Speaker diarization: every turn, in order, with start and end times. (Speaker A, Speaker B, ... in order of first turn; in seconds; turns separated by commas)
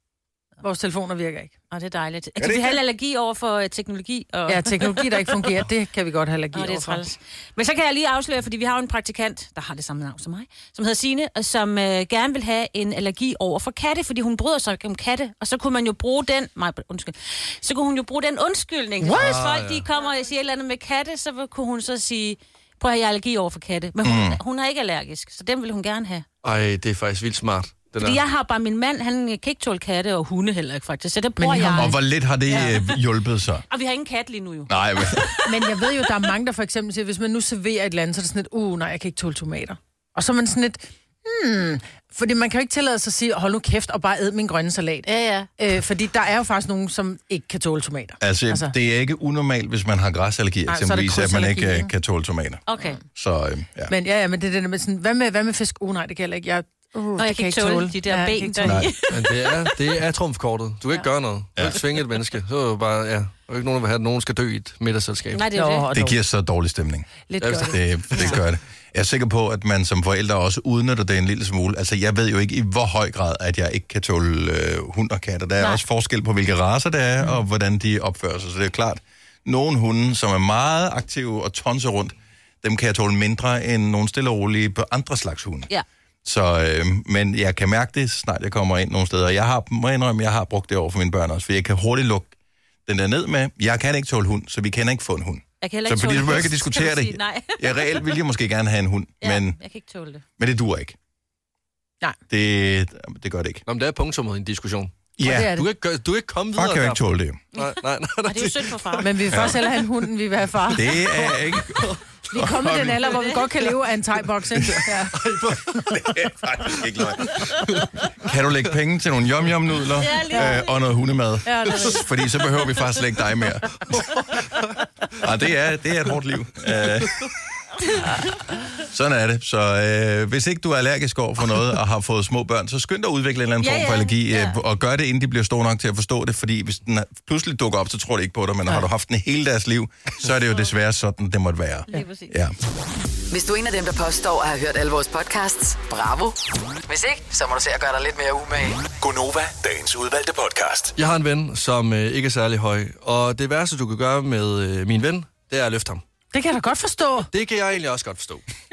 Speaker A: 0.6-1.7, Speaker B: 1.7-5.5, Speaker C: 2.4-2.8, Speaker A: 4.5-7.0, Speaker B: 6.5-26.2, Speaker D: 19.0-19.9, Speaker C: 24.0-24.4, Speaker D: 26.4-28.2, Speaker B: 28.0-32.0, Speaker A: 31.4-31.9, Speaker C: 31.7-33.6, Speaker B: 32.5-32.9, Speaker B: 33.7-35.5, Speaker C: 34.7-35.4, Speaker A: 35.4-48.7, Speaker B: 45.0-45.5, Speaker C: 48.2-53.9, Speaker A: 50.7-51.9, Speaker B: 52.7-53.0, Speaker A: 53.9-58.9, Speaker B: 57.2-59.8, Speaker C: 58.6-58.9, Speaker D: 59.1-65.4, Speaker B: 65.3-65.9, Speaker A: 65.5-66.2, Speaker C: 65.9-85.7, Speaker A: 67.3-68.3, Speaker D: 67.4-68.4, Speaker C: 86.2-92.3, Speaker C: 92.8-99.6, Speaker B: 95.6-98.2, Speaker B: 99.2-100.2, Speaker C: 100.4-101.0, Speaker C: 102.3-103.6, Speaker D: 103.7-107.0, Speaker C: 105.2-105.5, Speaker A: 105.2-105.7, Speaker C: 106.5-107.4, Speaker B: 107.5-109.1, Speaker D: 107.5-109.8, Speaker A: 109.0-111.3, Speaker C: 110.7-113.2, Speaker D: 111.7-112.1, Speaker A: 112.3-115.2, Speaker B: 113.1-113.3, Speaker D: 114.7-116.1, Speaker C: 115.7-117.3, Speaker D: 117.3-117.8, Speaker C: 118.2-123.8, Speaker B: 120.0-120.7, Speaker A: 121.4-122.0, Speaker D: 123.9-124.6, Speaker C: 125.2-127.3, Speaker C: 128.8-142.5, Speaker B: 133.6-134.6, Speaker B: 141.9-142.3, Speaker E: 143.3-148.9, Speaker F: 149.0-150.9, Speaker D: 150.9-156.0, Speaker A: 156.3-157.3, Speaker D: 157.3-158.4